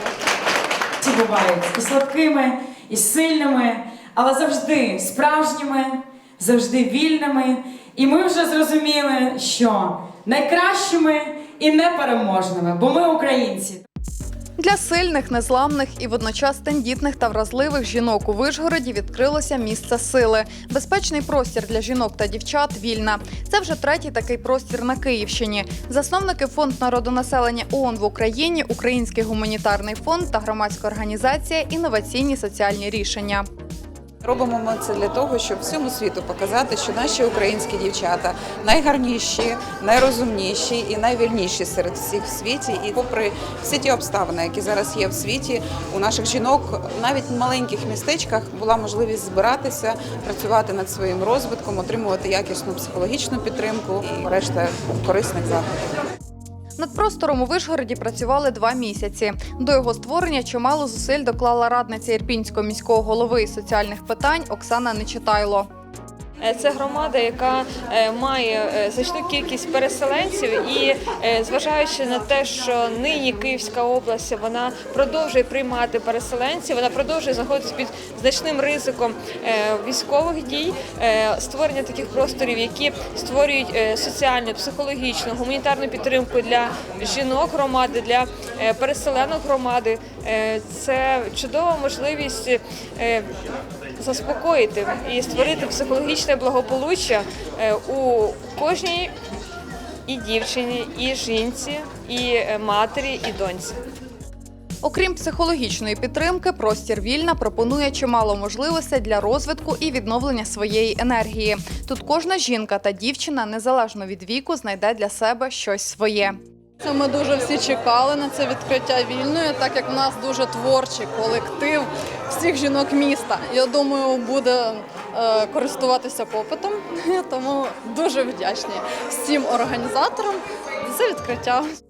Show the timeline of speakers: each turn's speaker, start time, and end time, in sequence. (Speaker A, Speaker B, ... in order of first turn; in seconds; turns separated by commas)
Speaker A: 1.0-13.8, Speaker B: 14.6-33.5, Speaker C: 34.2-55.7, Speaker B: 56.8-65.7, Speaker D: 66.4-93.3, Speaker D: 94.0-99.1, Speaker D: 100.1-103.8, Speaker B: 104.8-116.4, Speaker E: 116.8-131.8